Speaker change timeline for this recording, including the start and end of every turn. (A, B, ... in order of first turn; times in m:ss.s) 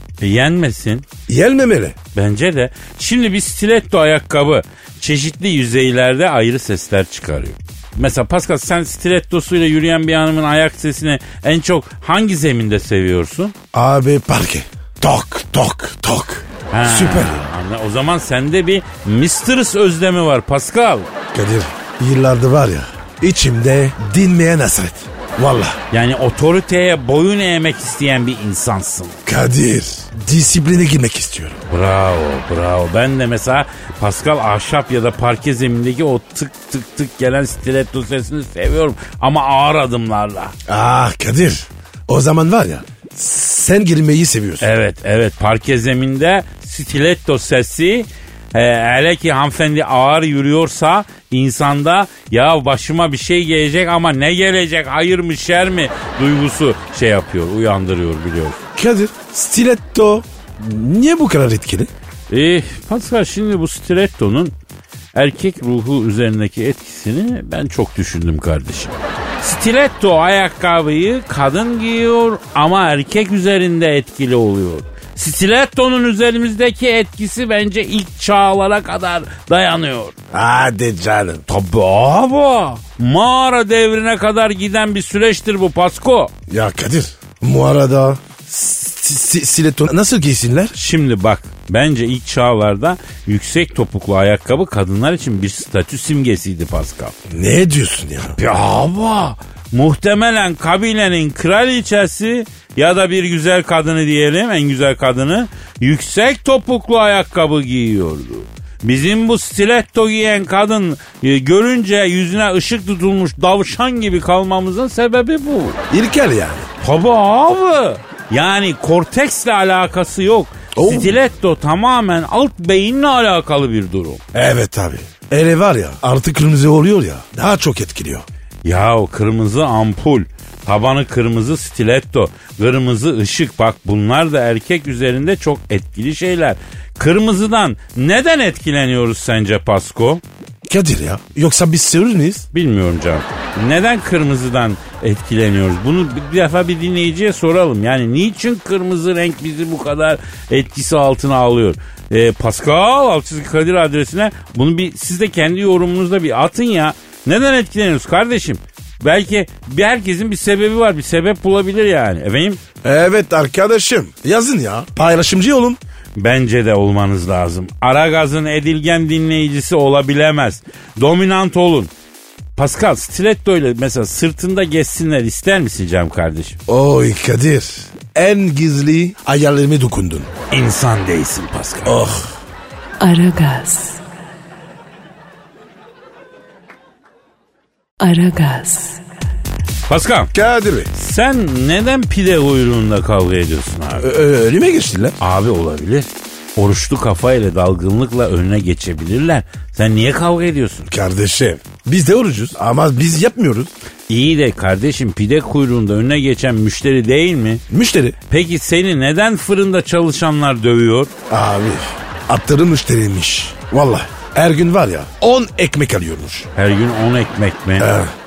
0:00.2-0:01.0 A
0:01.3-0:02.0 B
0:02.1-0:13.5 A
0:13.7-0:17.5 B
0:16.7-0:21.1 A
0:21.3-0:25.8 B
0:25.9-0:29.2 A
0:29.2-0:31.6 B
0:31.7-0:40.5 A
0:40.7-0:44.7 B
0:44.6-0:58.6 A
0:58.8-1:01.9 B
1:02.3-1:04.5 A
1:05.1-1:20.1 A
1:20.3-1:21.4 B
1:21.5-1:26.3 A
1:26.5-1:30.7 B
1:30.7-1:37.1 A
1:37.3-1:38.4 B
1:38.4-1:55.8 A
1:55.9-1:56.7 B
1:56.8-2:04.2 A
2:00.7-2:01.1 B
2:04.3-2:08.2 B
2:08.6-2:20.2 A
2:20.7-2:22.4 B
2:22.5-2:42.6 A
2:42.8-2:45.8 B
2:46.2-2:51.9 A
2:52.6-2:56.6 A
2:56.7-3:00.3 B
3:00.5-3:02.0 A
3:01.8-3:02.3 B
3:03.0-3:04.0 C
3:08.0-3:09.0 C
3:09.9-3:10.3 A
3:10.3-3:10.9 B
3:10.9-3:14.1 A
3:14.0-3:15.2 B
3:15.2-3:20.9 A
3:20.9-3:23.7 B
3:24.1-3:27.6 A
3:27.7-3:28.2 B
3:28.3-3:31.1 A
3:31.3-3:36.5 B
3:36.6-3:37.9 A
3:37.8-3:38.1 B